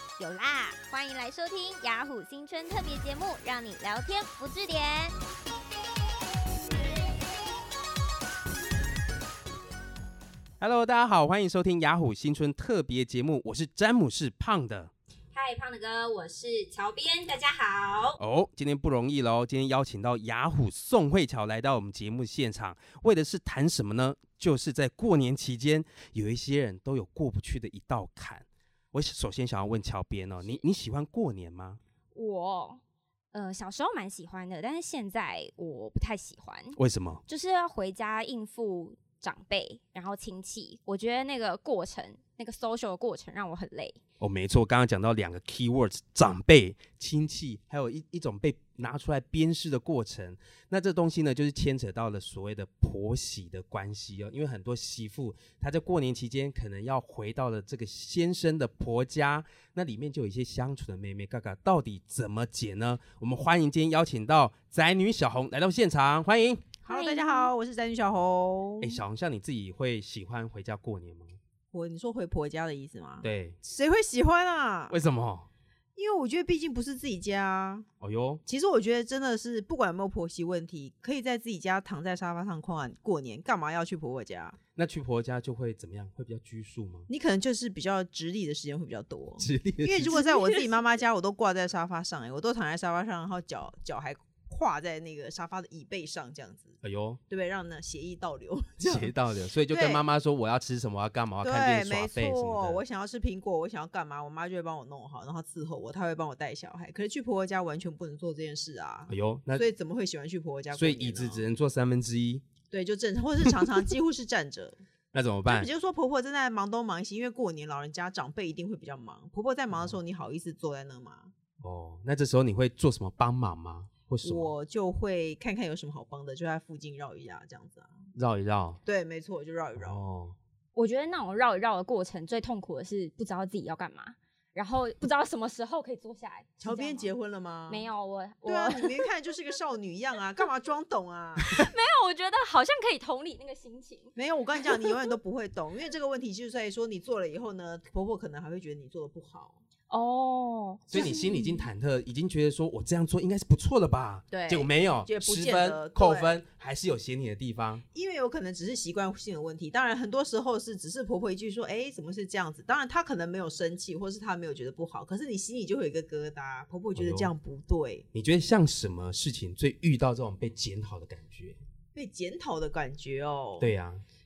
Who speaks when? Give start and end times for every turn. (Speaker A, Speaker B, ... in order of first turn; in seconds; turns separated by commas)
Speaker A: 0.2-5.2, Speaker B: 10.6-14.9, Speaker A: 15.3-18.2, Speaker B: 18.2-31.8, Speaker A: 32.1-32.8, Speaker A: 33.3-44.0, Speaker B: 36.7-37.2, Speaker B: 44.2-66.7, Speaker C: 66.8-69.0, Speaker A: 66.9-67.5, Speaker B: 68.8-71.4, Speaker C: 71.7-75.0, Speaker B: 73.2-73.6, Speaker B: 74.9-75.5, Speaker C: 76.0-77.9, Speaker B: 78.0-78.4, Speaker C: 78.5-84.6, Speaker B: 84.7-87.1, Speaker C: 87.1-99.1, Speaker B: 89.4-90.2, Speaker A: 90.3-90.7, Speaker B: 96.8-97.2, Speaker B: 98.8-102.8, Speaker C: 99.7-100.0, Speaker C: 101.4-111.4, Speaker B: 109.1-109.7, Speaker B: 110.7-112.5, Speaker C: 112.7-114.8, Speaker B: 115.1-115.7, Speaker C: 115.5-121.3, Speaker B: 119.7-120.0, Speaker B: 121.6-124.5, Speaker C: 124.2-127.9, Speaker B: 128.1-128.8, Speaker C: 128.8-130.0, Speaker B: 129.8-130.4, Speaker A: 130.8-137.1, Speaker C: 136.6-137.9, Speaker A: 137.7-139.1, Speaker C: 138.4-141.6, Speaker A: 141.5-145.0, Speaker C: 144.1-149.6, Speaker A: 149.9-151.7, Speaker B: 150.9-157.8, Speaker C: 154.3-156.3, Speaker C: 157.9-168.1, Speaker B: 166.9-167.3, Speaker B: 168.1-171.6, Speaker C: 171.9-173.7, Speaker B: 173.6-174.0